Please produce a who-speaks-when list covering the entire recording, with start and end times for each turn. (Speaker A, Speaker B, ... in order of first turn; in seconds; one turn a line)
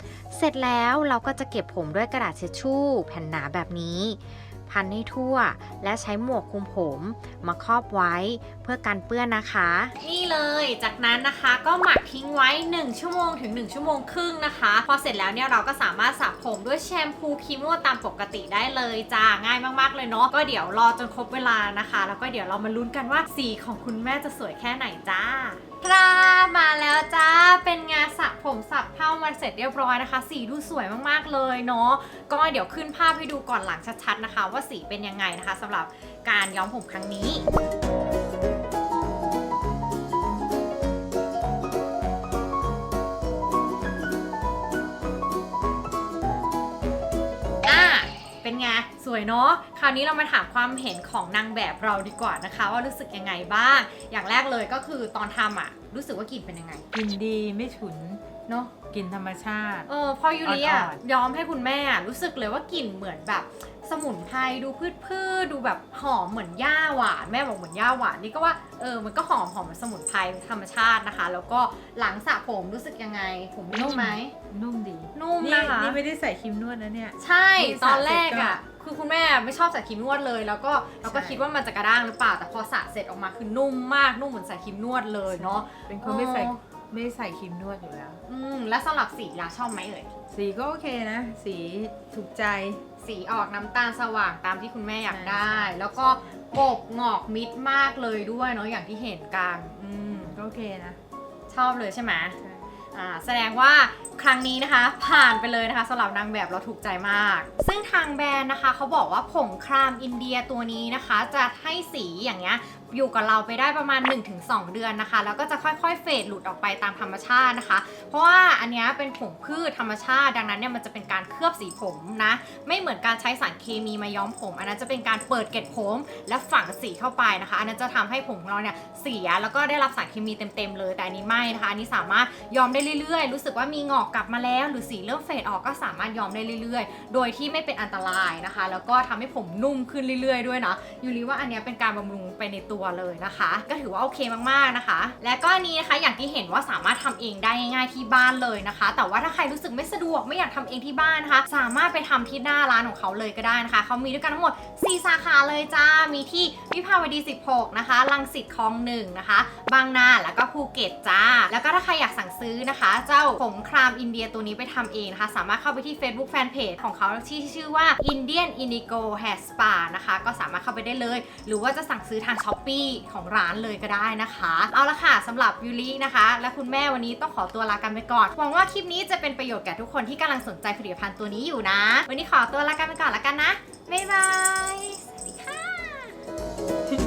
Speaker A: 0.3-9.9
Speaker B: 10.0-37.4
Speaker B: 47.6-56.8
Speaker C: 56.9-58.2
Speaker B: 58.5-58.8
Speaker C: 58.9-59.9
Speaker B: 59.9-74.3
Speaker C: 60.5-61.0
Speaker C: 73.7-78.5
Speaker B: 75.2-76.0
Speaker B: 77.2-86.6
Speaker C: 85.4-88.2
Speaker B: 88.3-90.1
Speaker C: 90.3-92.8
Speaker B: 93.0-100.4
Speaker C: 100.3-101.0
Speaker B: 101.5-102.4
Speaker B: 102.9-186.2